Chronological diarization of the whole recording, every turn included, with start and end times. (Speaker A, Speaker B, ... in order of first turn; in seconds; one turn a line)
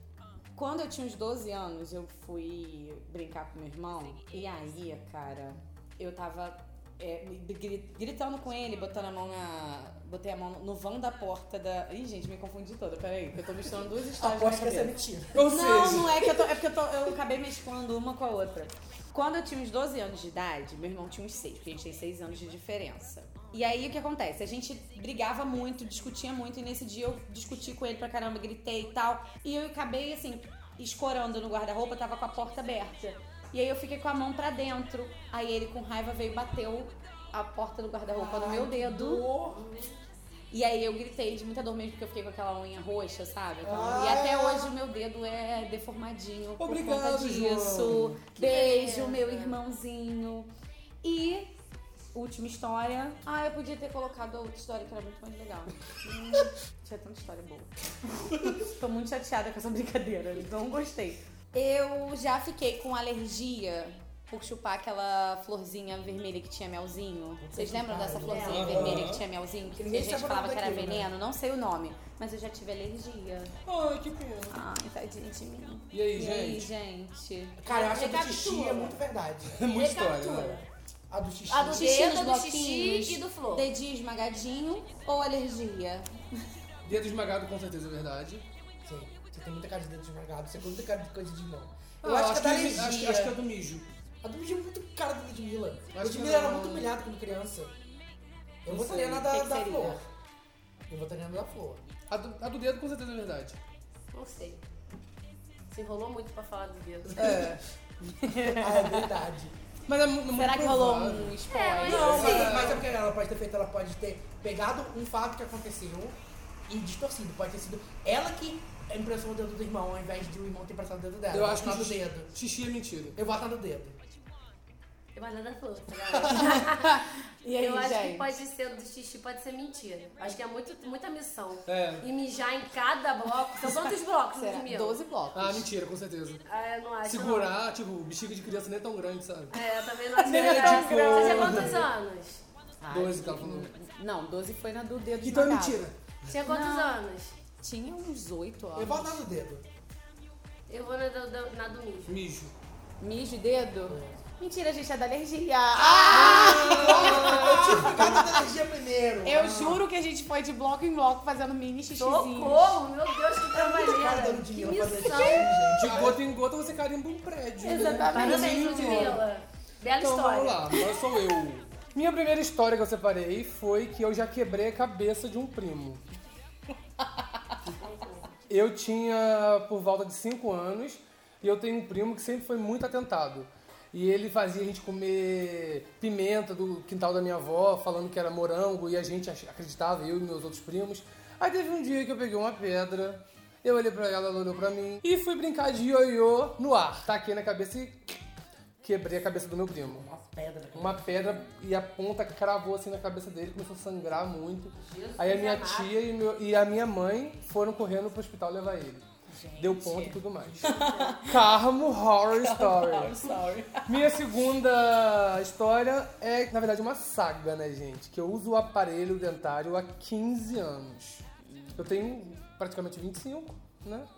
Speaker A: 0.5-14.9
Speaker B: 14.2-15.7
Speaker C: 15.3-16.2
Speaker A: 15.4-39.3
Speaker B: 38.1-39.6
Speaker D: 39.5-39.9
Speaker A: 40.5-50.5
Speaker B: 43.6-44.7
Speaker C: 46.6-48.2
Speaker D: 48.4-49.6
Speaker A: 51.0-51.5
Speaker A: 52.1-57.7
Speaker A: 58.3-73.5
Speaker B: 67.4-69.2
Speaker D: 68.2-69.0
Speaker C: 68.5-69.2
Speaker B: 69.7-71.1
Speaker C: 73.6-74.6
Speaker A: 74.5-77.6
Speaker C: 75.9-76.7
Speaker B: 77.6-79.7
Speaker D: 77.7-79.0
Speaker C: 79.5-80.6
Speaker D: 79.7-80.7
Speaker B: 81.1-82.1
Speaker D: 81.5-83.7
Speaker A: 81.7-86.5
Speaker C: 86.8-88.5
Speaker B: 88.8-93.4
Speaker C: 92.0-93.9
Speaker B: 94.2-97.7
Speaker C: 95.9-96.9
Speaker B: 98.6-100.0
Speaker C: 98.7-99.3
Speaker A: 99.2-100.0
Speaker B: 100.9-101.8
Speaker C: 102.1-103.6
Speaker D: 104.1-104.6
Speaker D: 105.7-107.1
Speaker B: 107.0-107.6
Speaker C: 107.2-107.6
Speaker A: 108.0-109.1
Speaker B: 108.5-109.5
Speaker C: 109.9-112.9
Speaker A: 110.3-112.6
Speaker D: 111.5-112.6
Speaker B: 111.8-122.3
Speaker C: 121.3-123.2
Speaker B: 123.2-124.0
Speaker D: 125.1-127.0
Speaker A: 126.3-128.3
Speaker D: 127.6-135.0
Speaker C: 131.7-132.0
Speaker A: 134.3-135.7
Speaker C: 135.3-136.4
Speaker D: 136.5-137.6
Speaker C: 137.0-139.6
Speaker D: 139.5-142.4
Speaker C: 140.2-141.9
Speaker A: 140.2-141.8
Speaker A: 142.8-145.9
Speaker C: 142.9-143.7
Speaker C: 145.2-146.3
Speaker D: 146.3-147.3
Speaker A: 146.4-147.0
Speaker A: 147.6-149.2
Speaker B: 148.7-149.6
Speaker D: 150.7-152.2
Speaker C: 152.1-152.5
Speaker A: 153.0-158.3
Speaker B: 153.9-154.2
Speaker B: 155.7-159.8
Speaker C: 156.1-158.2
Speaker A: 159.2-162.8
Speaker D: 162.0-165.7
Speaker B: 163.5-166.2
Speaker C: 165.7-169.2
Speaker A: 167.6-169.2
Speaker D: 167.7-170.8
Speaker B: 168.1-169.2
Speaker C: 170.0-176.0
Speaker C: 178.5-198.2
Speaker C: 198.8-200.0
Speaker B: 199.7-201.5
Speaker C: 200.7-209.0
Speaker D: 204.8-205.9
Speaker A: 209.3-211.4
Speaker C: 209.6-213.2
Speaker D: 210.7-211.2
Speaker A: 212.3-214.2
Speaker C: 213.8-221.2
Speaker A: 221.4-221.9
Speaker C: 221.8-224.1